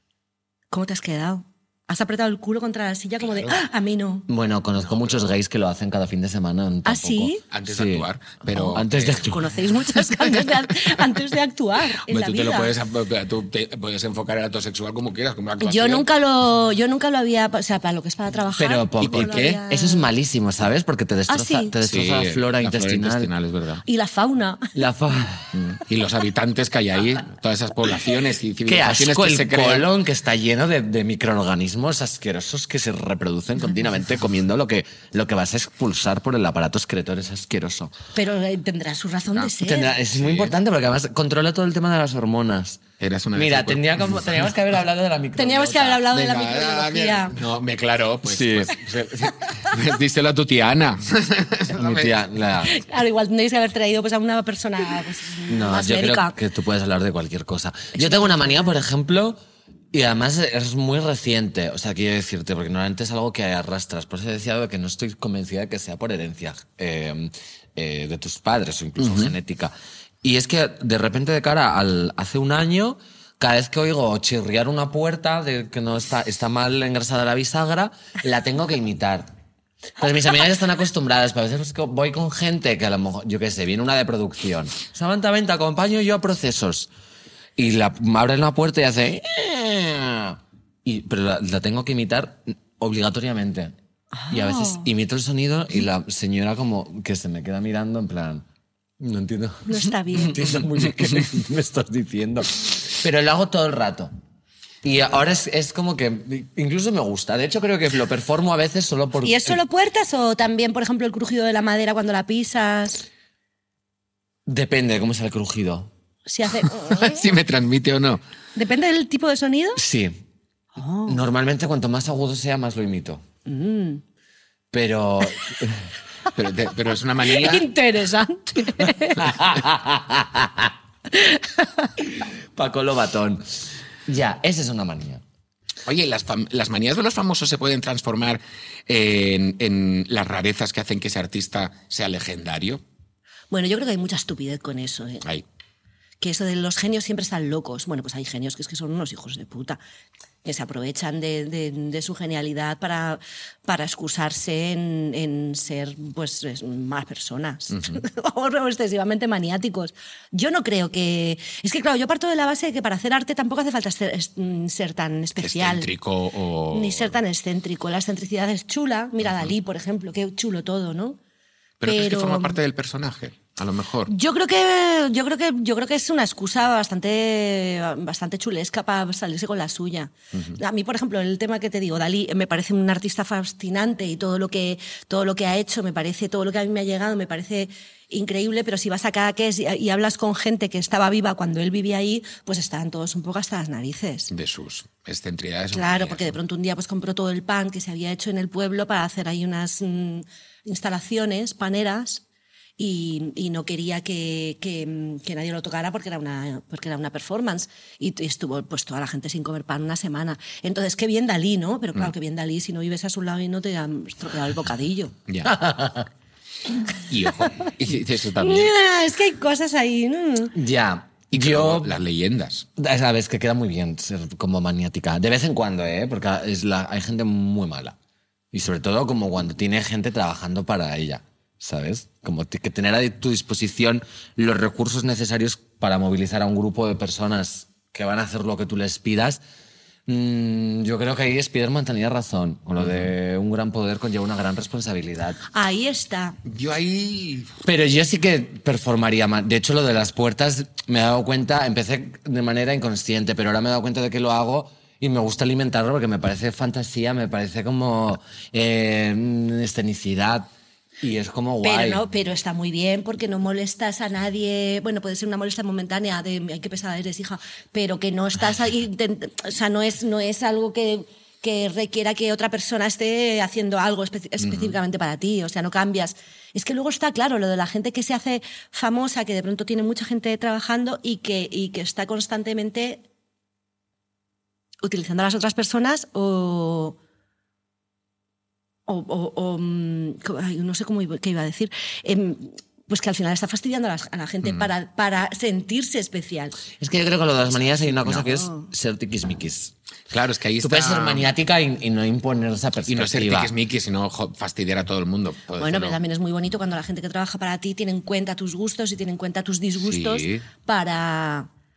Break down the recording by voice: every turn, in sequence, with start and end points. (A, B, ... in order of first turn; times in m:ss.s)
0:00.7-0:04.3 A
0:03.2-0:03.5 B
0:04.3-0:08.1 C
0:04.8-0:05.3 B
0:06.8-0:07.4 A
0:07.5-0:09.3 B
0:08.6-0:12.7 A
0:08.7-0:09.5 C
0:12.0-0:16.1 B
0:15.6-0:20.1 A
0:18.6-0:23.3 C
0:19.0-0:19.6 B
0:21.3-0:21.7 A
0:21.8-0:23.8 B
0:23.8-0:24.8 A
0:24.8-0:25.5 C
0:25.5-0:29.9 B
0:28.7-0:38.0 C
0:38.2-0:40.0 A
0:39.6-0:42.8 C
0:40.1-0:40.6 B
0:43.0-0:44.4 B
0:43.4-0:46.1 C
0:45.4-0:47.4 A
0:46.1-0:52.2 B
0:48.2-0:48.8 C
0:51.7-0:52.8 C
0:52.6-0:56.3 A
0:55.5-0:59.4 C
0:58.0-0:58.7 A
0:59.9-1:19.3 C
1:09.0-1:09.3 B
1:20.0-1:26.9 C
1:27.6-1:33.7 C
1:34.1-1:34.9 A
1:34.3-1:38.4 C
1:39.0-1:44.1 C
1:39.7-1:40.5 A
1:44.8-1:49.6 C
1:49.2-1:53.0 A
1:54.5-1:55.9 C
1:56.3-1:57.3 A
1:56.8-1:58.2 B
1:58.6-1:59.8 A
1:59.8-2:00.2 C
2:00.8-2:01.2 A
2:01.1-2:03.2 C
2:03.5-2:04.0 A
2:04.7-2:05.9 C
2:06.4-2:07.7 B
2:07.2-2:09.4 A
2:09.2-2:10.7 C
2:11.1-2:11.9 A
2:12.2-2:15.2 C
2:15.9-2:22.8 B
2:23.5-2:25.2 A
2:26.2-2:29.8 A
2:30.4-2:45.9 A
2:37.7-2:38.0 B
2:45.4-2:47.2 B
2:46.7-2:51.2 A
2:49.2-2:49.5 B
2:51.8-2:54.1 B
2:51.8-2:52.6 A
2:54.1-3:14.3 A
3:00.3-3:00.6 B
3:14.3-3:16.4 B
3:15.7-3:22.2 A
3:22.8-3:35.1 A
3:35.3-3:35.5 B
3:35.4-3:36.1 C
3:37.1-3:38.7 B
3:38.4-3:40.6 A
3:40.5-3:42.0 C
3:41.3-3:42.7 B
3:42.8-3:48.0 C
3:48.5-3:59.4 C
4:00.1-4:05.4 C
4:02.8-4:03.1 B
4:05.5-4:06.4 A
4:06.4-4:07.5 B
4:07.6-4:22.0 C
4:21.6-4:43.0 A
4:34.4-4:34.8 B
4:44.8-4:47.0 A
4:48.9-4:56.6 A
4:54.4-4:54.7 B
4:56.8-4:59.7 C
4:58.1-4:58.7 A
5:00.1-5:01.3 B
5:00.6-5:03.5 C
5:02.9-5:06.0 B
5:05.6-5:11.5 A
5:09.8-5:10.4 B